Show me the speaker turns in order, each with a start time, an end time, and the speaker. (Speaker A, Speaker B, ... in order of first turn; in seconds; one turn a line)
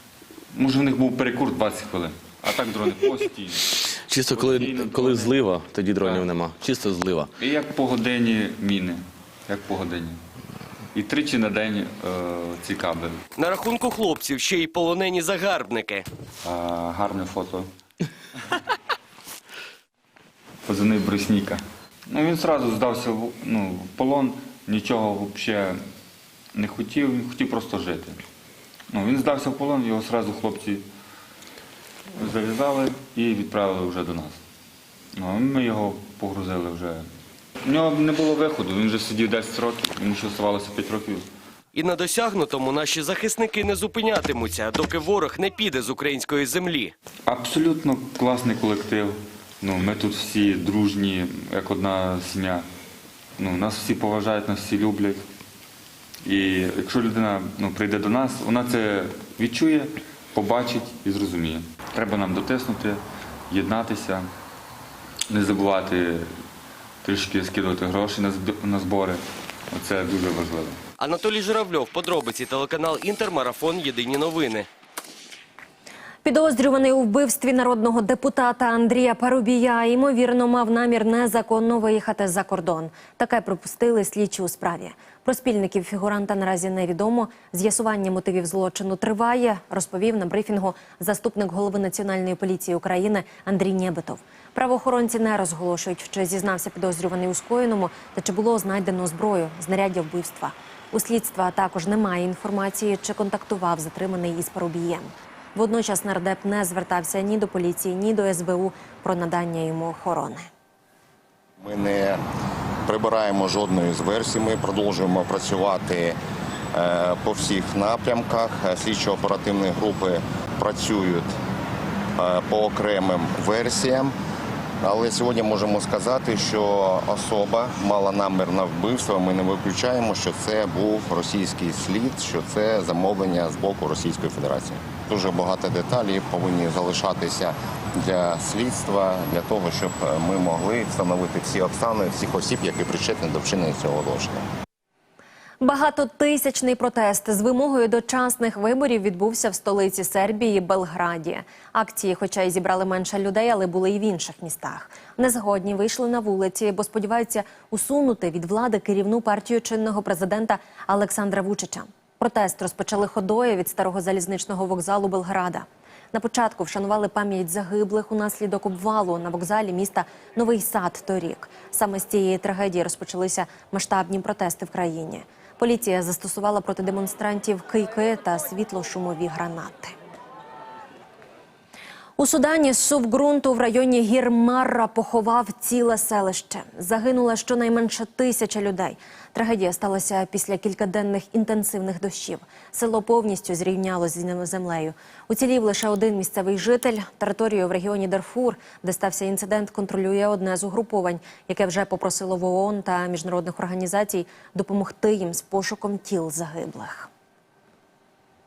Speaker A: 0.5-5.4
Speaker B: 3.9-7.3
Speaker A: 6.0-6.3
Speaker A: 7.4-10.2
Speaker A: 10.9-13.2
Speaker C: 13.3-16.0
Speaker A: 16.4-17.7
Speaker A: 20.6-25.8
Speaker A: 26.5-28.2
Speaker A: 28.9-30.9
Speaker A: 32.1-34.4
Speaker A: 35.1-37.0
Speaker A: 37.6-41.2
Speaker C: 41.7-46.9
Speaker A: 47.3-52.6
Speaker A: 53.4-55.2
Speaker A: 56.2-64.3
Speaker A: 65.3-66.3
Speaker A: 67.0-70.8
Speaker C: 71.0-74.7
Speaker D: 76.2-110.5
Speaker E: 111.6-112.2
Speaker E: 112.9-116.2
Speaker E: 116.7-121.3
Speaker E: 122.2-124.1
Speaker E: 124.8-144.5
Speaker D: 145.6-179.9
Speaker D: 182.2-207.1